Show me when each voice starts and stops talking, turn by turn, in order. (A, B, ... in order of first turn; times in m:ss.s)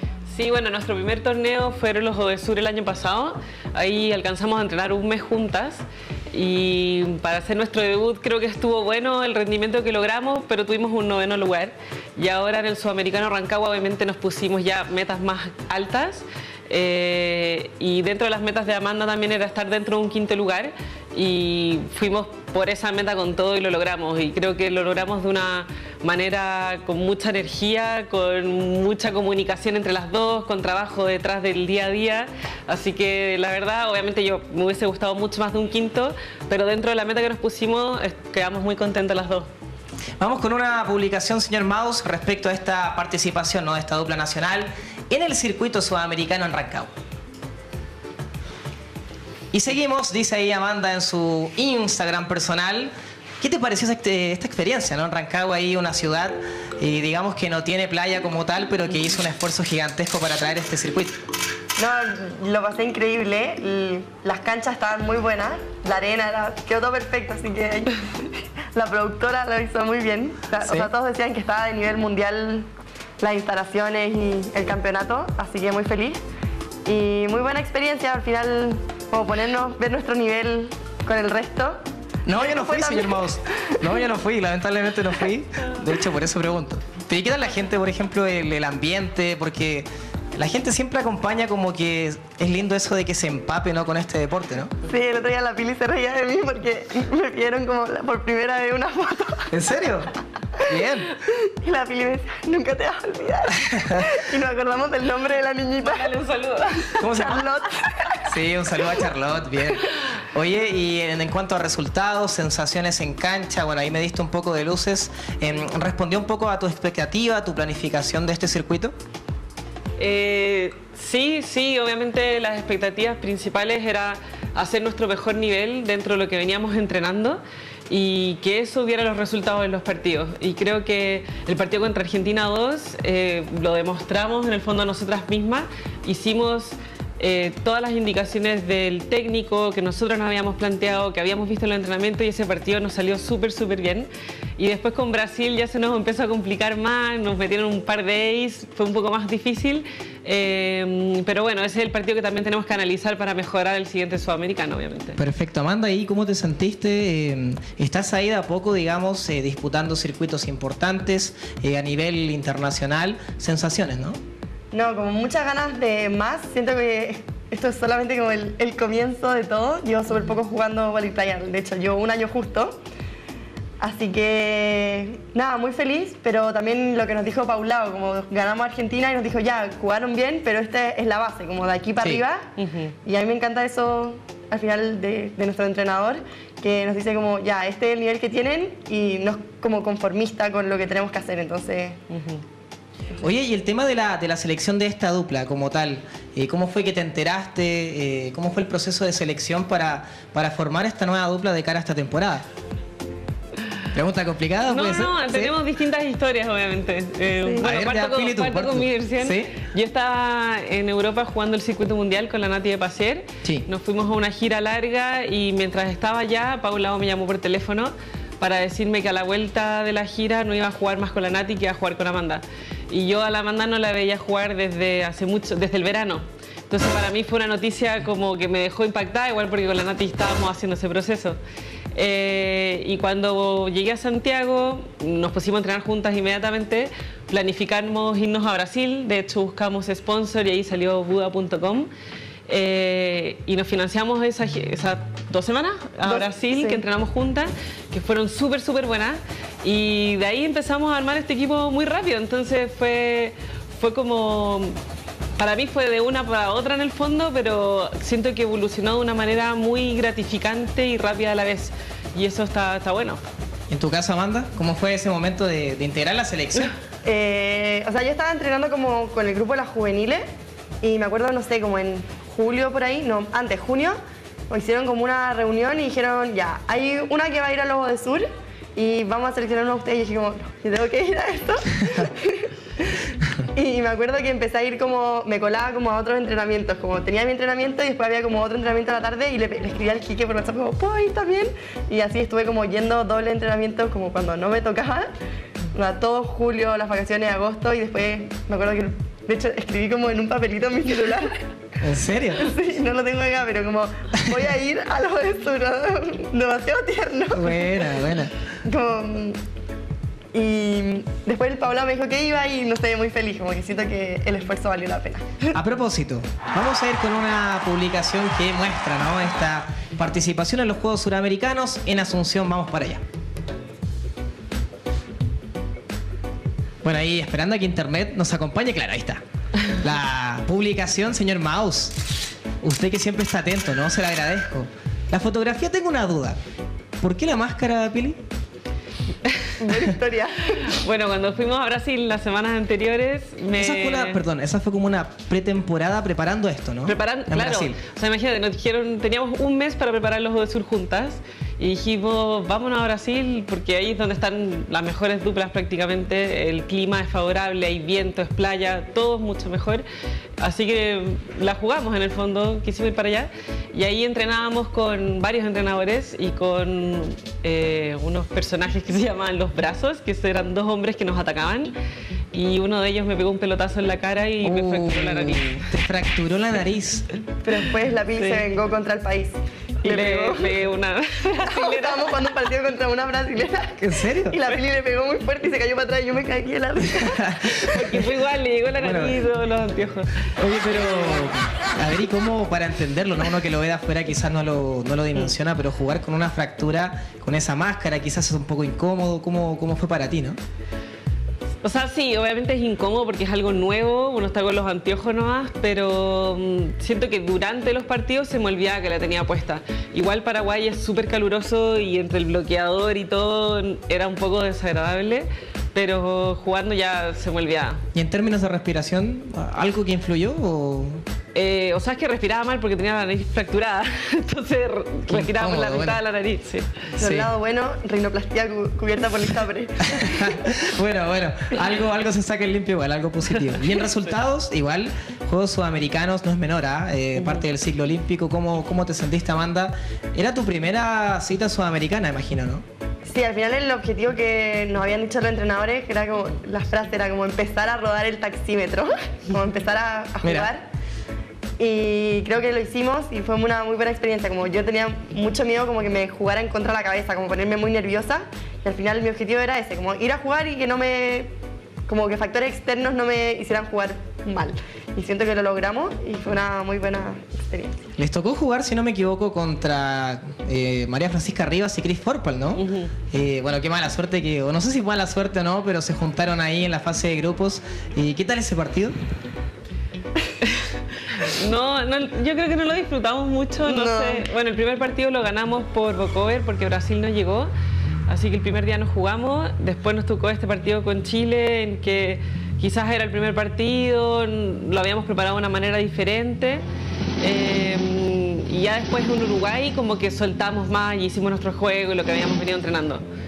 0:00.3-0:39.5 A
0:40.2-0:46.9 B
0:49.5-1:01.2 B
1:01.8-1:12.7 C
1:10.6-1:10.9 B
1:13.2-1:16.2 C
1:16.8-1:21.8 C
1:22.2-1:34.7 B
1:22.4-1:23.8 C
1:34.9-1:39.5 C
1:39.5-1:40.1 B
1:40.6-1:41.1 B
1:40.7-1:46.1 C
1:43.8-1:44.0 B
1:45.8-1:47.0 A
1:47.0-1:47.4 B
1:47.0-1:48.2 C
1:48.3-1:58.9 B
2:00.0-2:35.2 A
2:35.2-2:44.2 B
2:44.7-2:52.8 C
2:53.8-3:02.5 C
3:02.6-3:02.9 A
3:03.0-3:12.0 C
3:12.1-3:12.4 A
3:13.2-3:22.5 B
3:23.9-3:25.5 B
3:24.7-3:51.4 A
3:27.6-3:29.5 B
3:51.9-4:01.9 A
4:02.5-4:14.8 A
4:06.0-4:06.8 C
4:15.4-4:23.2 A
4:23.7-4:26.7 B
4:27.0-4:30.2 C
4:30.8-4:34.0 C
4:34.5-4:43.0 C
4:43.5-4:55.1 C
4:55.7-5:01.4 C
5:01.8-5:02.5 B
5:02.4-5:07.8 C
5:07.3-5:08.3 B
5:08.6-5:09.4 C
5:10.3-5:15.5 C
5:15.5-5:23.0 B
5:26.8-5:32.0 B
5:32.6-5:36.4 B
5:37.0-5:38.2 B
5:39.6-5:40.7 C
5:40.5-5:44.2 A
5:43.6-5:47.8 B
5:46.9-5:59.8 A
6:00.4-6:11.7 A
6:12.3-6:15.6 A
6:14.4-6:17.0 B
6:17.4-6:20.6 C
6:18.2-6:18.4 A
6:19.8-6:22.1 A
6:21.4-6:27.6 C
6:23.8-6:24.4 B
6:26.9-6:28.1 B
6:27.7-6:30.3 A
6:28.8-6:29.2 B
6:30.4-6:40.4 B
6:41.6-6:57.8 A
6:57.9-7:01.0 B
7:01.4-7:06.8 A
7:05.1-7:06.0 B
7:07.0-7:07.3 B
7:07.0-7:10.5 C
7:09.9-7:22.6 B
7:23.0-7:30.6 C
7:30.2-7:30.5 B
7:31.6-7:41.3 C
7:41.9-7:47.8 C
7:48.0-7:59.0 B
7:52.6-7:52.9 A
8:00.4-8:07.5 A
8:03.6-8:04.2 C
8:08.1-8:16.6 A
8:17.2-8:23.0 A